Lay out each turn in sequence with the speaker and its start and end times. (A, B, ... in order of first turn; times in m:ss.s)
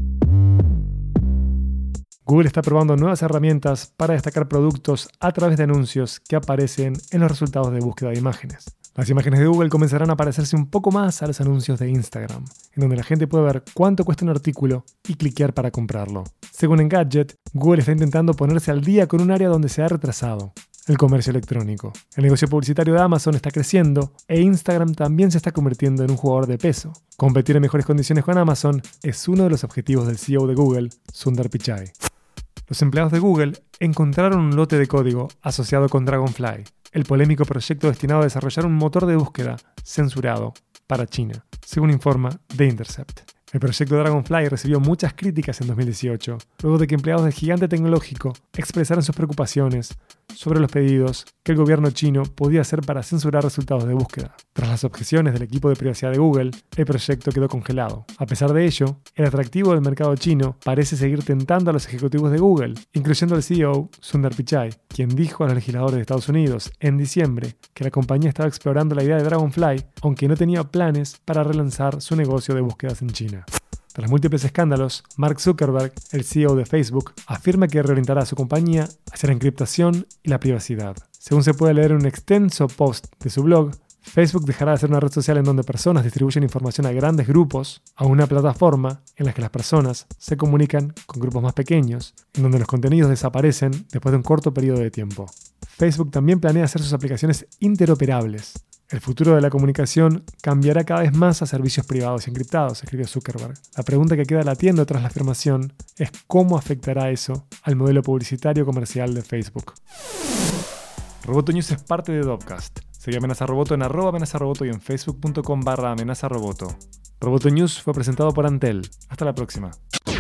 0:02.3-0:31.9 A
0:32.7-1:49.8 A
1:51.2-1:59.8 A